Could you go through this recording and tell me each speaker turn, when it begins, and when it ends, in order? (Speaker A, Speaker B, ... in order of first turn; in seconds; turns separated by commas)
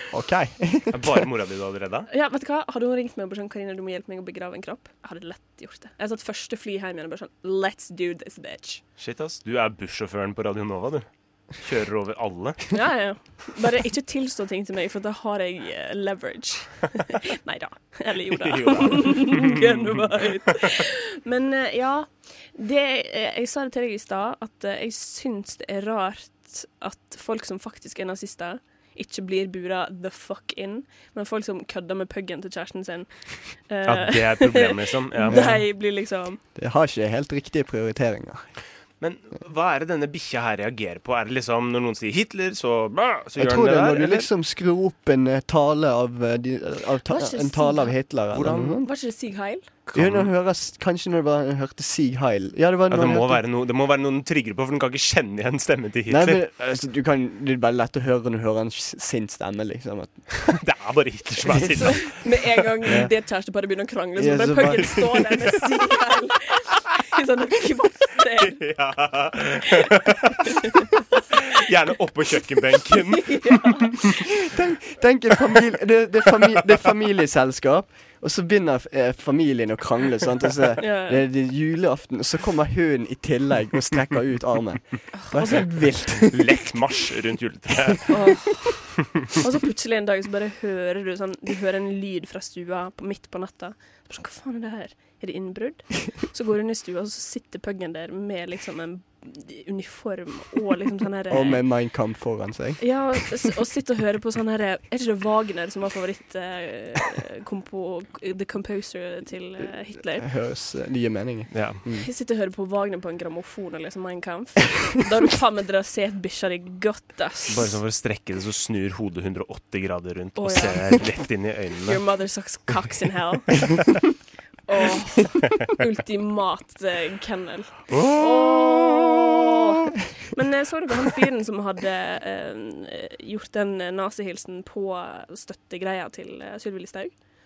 Speaker A: 0.1-1.3, Speaker B: 0.9-2.1, Speaker C: 2.1-8.8, Speaker B: 9.0-12.7, Speaker C: 12.7-36.4, Speaker B: 18.4-19.6, Speaker B: 33.9-35.6, Speaker A: 35.3-35.7, Speaker A: 36.5-38.5, Speaker B: 39.0-44.3, Speaker A: 43.4-48.9, Speaker C: 47.1-48.0, Speaker B: 48.3-48.8, Speaker C: 48.8-49.7, Speaker B: 49.9-50.3, Speaker A: 49.9-53.4, Speaker B: 52.9-56.5, Speaker A: 56.1-60.5, Speaker B: 60.5-62.6, Speaker C: 61.8-68.7, Speaker A: 62.9-63.1, Speaker A: 64.2-65.1, Speaker B: 68.4-70.6, Speaker B: 71.3-73.7, Speaker C: 73.1-74.0, Speaker A: 74.2-86.6, Speaker C: 80.8-81.2, Speaker C: 85.1-85.7, Speaker B: 86.3-88.5, Speaker C: 88.1-101.7, Speaker A: 101.3-103.5, Speaker C: 102.8-110.3, Speaker A: 110.2-112.1, Speaker B: 111.5-111.8, Speaker C: 112.0-117.7, Speaker B: 117.5-122.0, Speaker C: 120.4-121.3, Speaker C: 121.8-124.0, Speaker C: 124.7-137.1, Speaker B: 127.9-129.2